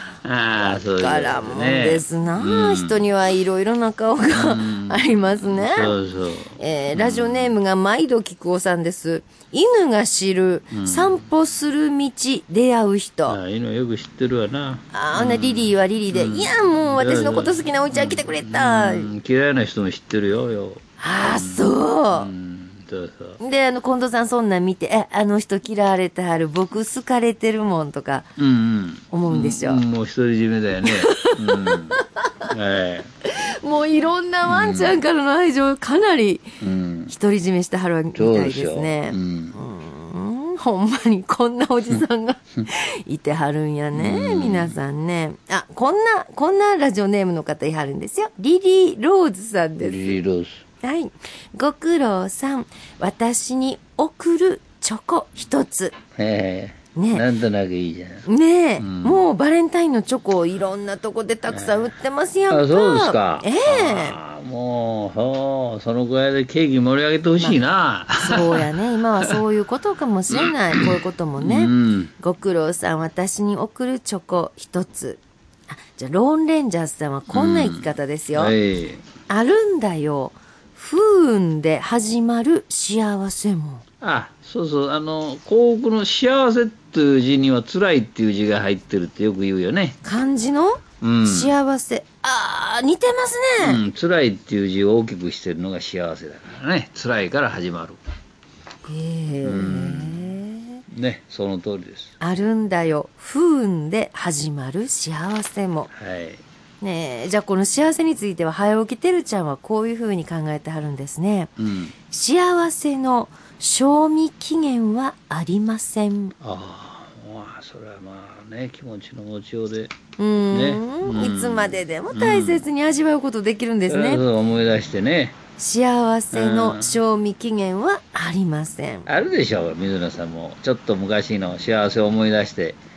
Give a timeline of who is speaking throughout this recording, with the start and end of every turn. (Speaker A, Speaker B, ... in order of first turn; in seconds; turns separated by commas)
Speaker A: 0.2-3.1, Speaker B: 0.6-6.0, Speaker A: 4.3-7.5, Speaker B: 6.6-13.4, Speaker A: 10.7-11.2, Speaker A: 13.3-23.4, Speaker B: 14.9-19.1, Speaker B: 21.0-22.3, Speaker B: 23.4-28.3, Speaker A: 28.4-33.1, Speaker B: 29.1-29.8, Speaker B: 30.9-32.5, Speaker B: 33.3-36.6, Speaker A: 34.5-35.0, Speaker A: 36.6-37.1, Speaker B: 37.1-50.2, Speaker A: 38.1-39.6, Speaker A: 43.9-44.8, Speaker A: 49.8-50.6, Speaker B: 50.8-56.0, Speaker A: 56.2-58.3, Speaker B: 57.0-57.2, Speaker B: 58.3-64.2, Speaker A: 58.8-59.2, Speaker A: 61.5-61.8, Speaker A: 62.5-68.7, Speaker B: 68.2-78.5, Speaker A: 70.3-72.1, Speaker A: 77.3-79.0, Speaker B: 79.3-83.8, Speaker A: 84.0-90.0, Speaker B: 90.0-93.8, Speaker A: 91.0-91.6, Speaker A: 93.6-98.0, Speaker B: 98.9-100.8, Speaker A: 99.4-100.4, Speaker A: 100.9-102.1, Speaker B: 102.2-105.9, Speaker A: 105.9-106.4, Speaker B: 106.8-111.5, Speaker A: 111.6-111.9, Speaker B: 112.1-116.3, Speaker A: 116.4-119.9, Speaker B: 120.2-124.2, Speaker A: 120.5-122.7, Speaker A: 123.9-125.4, Speaker B: 125.6-129.1, Speaker A: 126.3-127.0, Speaker A: 129.1-132.8